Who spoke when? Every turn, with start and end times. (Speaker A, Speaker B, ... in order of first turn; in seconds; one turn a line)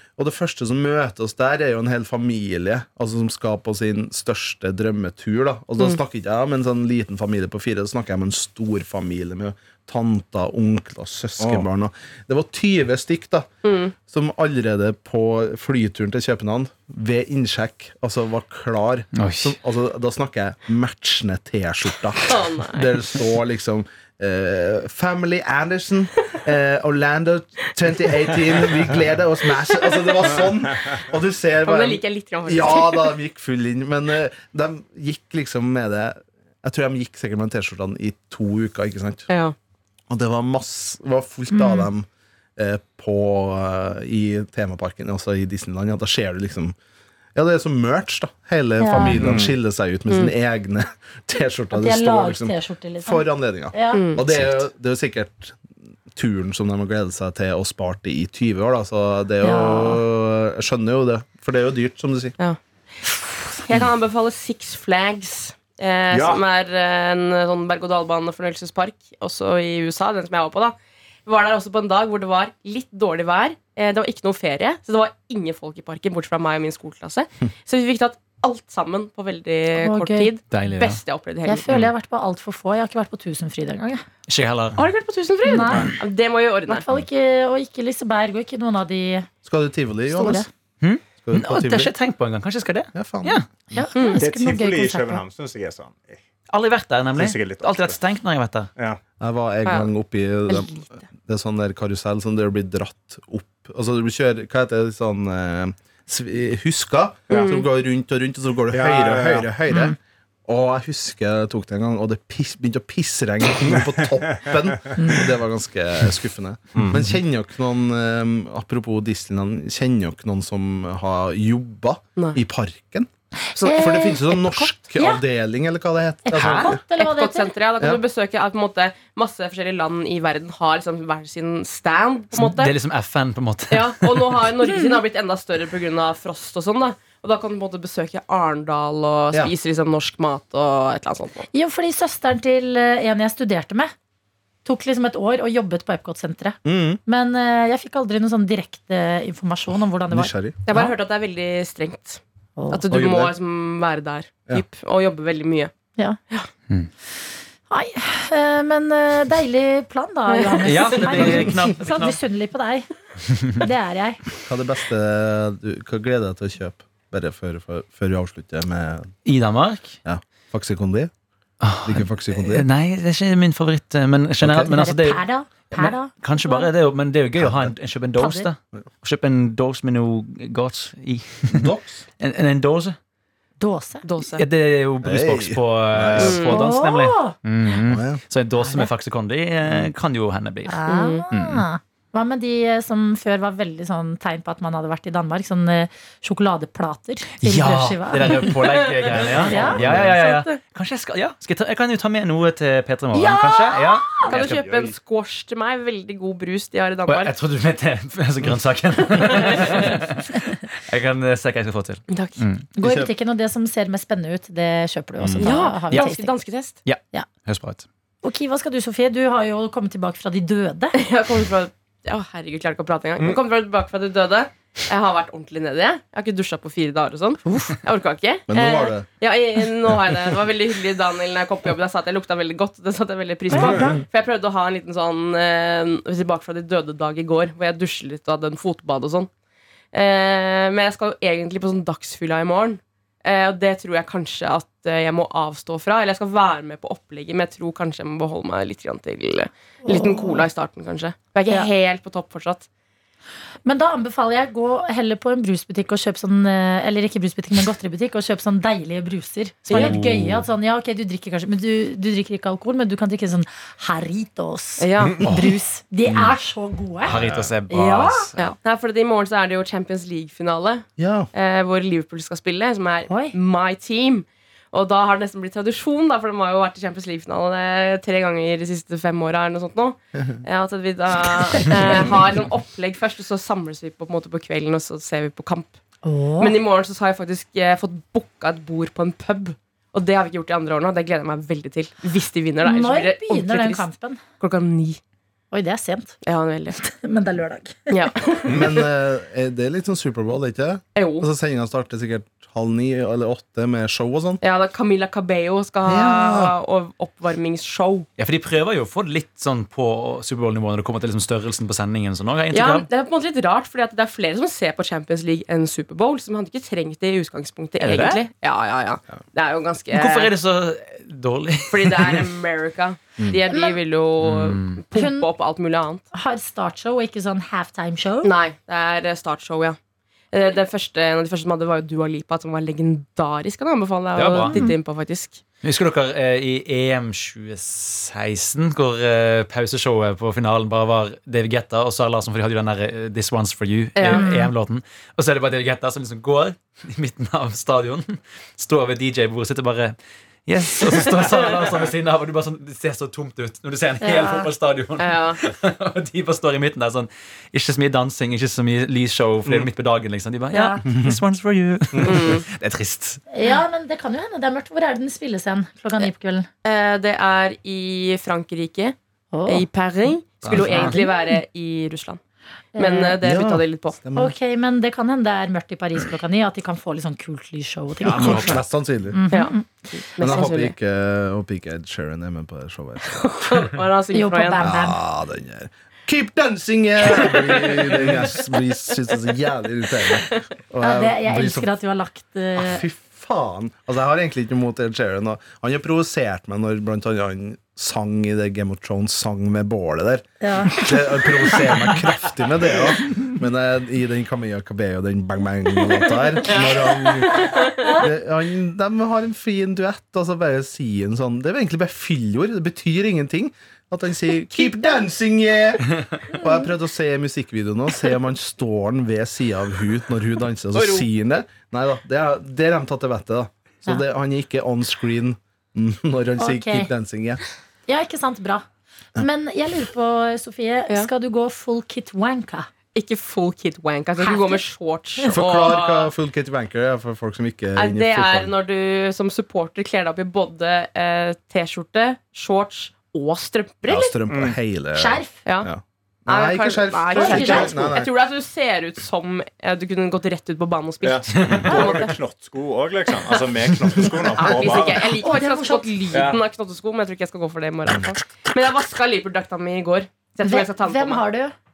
Speaker A: 0.2-13.5
Speaker B: 13.6-13.9
Speaker A: 14.0-39.3
Speaker C: 19.1-19.6
Speaker B: 22.2-23.0
Speaker B: 31.6-33.1
Speaker B: 39.3-39.5
Speaker A: 40.1-46.7
Speaker D: 41.5-41.9
Speaker A: 47.3-55.6
Speaker D: 48.8-49.2
Speaker E: 49.1-49.5
Speaker D: 51.7-54.2
Speaker B: 53.9-54.2
Speaker A: 56.1-62.4
Speaker D: 59.4-60.0
Speaker B: 63.5-81.7
Speaker E: 66.1-66.4
Speaker D: 79.7-80.3
Speaker C: 80.5-81.0
Speaker D: 81.4-84.0
Speaker C: 84.3-84.8
Speaker B: 84.8-86.8
Speaker D: 85.4-85.9
Speaker D: 86.7-89.3
Speaker A: 89.4-90.5
Speaker D: 90.1-90.5
Speaker C: 90.8-93.5
Speaker A: 91.2-91.9
Speaker A: 92.9-93.8
Speaker D: 93.7-95.2
Speaker B: 93.9-94.2
Speaker E: 94.2-96.2
Speaker C: 96.5-98.7
Speaker E: 97.1-98.0
Speaker A: 99.2-126.8
Speaker B: 107.3-107.7
Speaker E: 108.7-109.5
Speaker D: 109.7-109.9
Speaker E: 116.7-117.0
Speaker D: 123.5-125.2
Speaker D: 126.2-127.5
Speaker C: 126.3-126.7
Speaker B: 126.9-132.7
Speaker C: 132.3-134.5
Speaker B: 133.7-141.5
Speaker D: 134.6-135.0
Speaker D: 141.5-143.9
Speaker D: 144.6-150.9
Speaker A: 146.6-147.0
Speaker A: 150.1-150.6
Speaker B: 150.7-155.7
Speaker D: 152.6-152.8
Speaker A: 152.9-153.3
Speaker D: 157.7-162.9
Speaker B: 160.3-161.3
Speaker C: 160.6-162.2
Speaker D: 163.4-164.2
Speaker A: 164.4-169.1
Speaker C: 169.2-170.0
Speaker A: 170.0-171.1
Speaker C: 171.6-182.9
Speaker A: 171.8-172.7
Speaker A: 174.4-174.7
Speaker D: 174.7-176.7
Speaker A: 177.4-177.7
Speaker D: 178.2-178.5
Speaker A: 181.5-182.0
Speaker D: 183.6-184.1
Speaker B: 184.0-184.4
Speaker C: 184.4-190.8
Speaker A: 185.0-186.4
Speaker B: 186.2-186.7
Speaker D: 186.5-187.3
Speaker A: 187.9-188.2
Speaker D: 188.6-188.9
Speaker D: 190.7-198.5
Speaker B: 190.9-191.2
Speaker C: 191.3-191.6
Speaker C: 197.4-204.2
Speaker B: 199.0-200.6
Speaker D: 199.4-199.8
Speaker E: 199.5-200.0
Speaker A: 199.8-200.1
Speaker D: 203.1-204.4
Speaker B: 204.2-207.3
Speaker E: 204.3-204.9
Speaker C: 207.1-212.6
Speaker B: 209.2-209.9
Speaker B: 212.1-212.4
Speaker D: 212.8-216.3
Speaker A: 212.8-213.1
Speaker C: 215.3-216.1
Speaker B: 215.4-216.8
Speaker C: 216.8-217.8
Speaker D: 218.2-221.0
Speaker B: 220.9-239.3
Speaker A: 228.5-229.1
Speaker A: 233.5-234.0
Speaker D: 233.5-234.0
Speaker B: 239.9-252.7
Speaker D: 249.8-250.4
Speaker D: 253.7-268.3
Speaker B: 259.6-260.0
Speaker C: 259.7-260.5
Speaker B: 264.8-265.4
Speaker C: 267.0-268.6
Speaker E: 267.1-267.5
Speaker B: 268.4-285.8
Speaker A: 271.0-271.3
Speaker D: 273.1-273.3
Speaker D: 286.0-286.6
Speaker B: 286.4-293.9
Speaker D: 292.6-294.2
Speaker B: 294.4-295.0
Speaker D: 295.5-296.2
Speaker B: 296.2-296.8
Speaker D: 296.7-298.4
Speaker B: 297.9-298.8
Speaker A: 298.5-304.4
Speaker B: 300.9-301.3
Speaker B: 304.4-308.1
Speaker A: 305.8-306.5
Speaker C: 308.2-312.9
Speaker B: 312.5-320.3
Speaker C: 317.8-318.2
Speaker C: 319.9-322.3
Speaker B: 321.7-326.0
Speaker D: 323.5-323.8
Speaker C: 324.2-324.8
Speaker D: 324.9-325.3
Speaker D: 326.1-328.3
Speaker B: 328.2-329.8
Speaker B: 330.3-335.4
Speaker C: 334.1-334.6
Speaker D: 334.3-334.8
Speaker C: 335.6-363.2
Speaker B: 343.9-344.3
Speaker D: 344.0-344.5
Speaker D: 354.0-354.5
Speaker B: 355.0-355.4
Speaker D: 360.5-360.8
Speaker B: 362.0-362.5
Speaker D: 363.3-366.5
Speaker B: 366.6-372.2
Speaker D: 369.3-369.6
Speaker C: 370.4-371.0
Speaker D: 370.5-371.4
Speaker D: 372.7-373.2
Speaker B: 372.8-374.0
Speaker A: 373.2-374.3
Speaker D: 374.1-378.6
Speaker C: 378.0-378.6
Speaker A: 378.1-379.2
Speaker D: 379.1-380.4
Speaker B: 379.3-380.7
Speaker A: 380.2-383.2
Speaker B: 383.1-384.6
Speaker D: 384.1-385.0
Speaker A: 384.6-391.7
Speaker D: 390.8-392.8
Speaker A: 392.6-427.4
Speaker D: 400.4-401.5
Speaker B: 406.4-407.9
Speaker D: 407.4-408.0
Speaker D: 414.6-414.9
Speaker D: 416.3-416.6
Speaker D: 426.4-426.9
Speaker D: 427.9-428.6
Speaker D: 429.2-432.7
Speaker B: 432.9-436.1
Speaker D: 434.2-435.4
Speaker A: 435.3-438.5
Speaker B: 437.7-444.2
Speaker A: 443.9-448.1
Speaker E: 444.3-444.6
Speaker D: 444.9-445.4
Speaker B: 445.4-445.7
Speaker B: 446.3-452.2
Speaker D: 447.1-447.9
Speaker E: 451.0-455.1
Speaker C: 451.4-451.7
Speaker B: 454.0-461.2
Speaker D: 455.1-456.2
Speaker E: 456.1-456.4
Speaker D: 460.4-461.5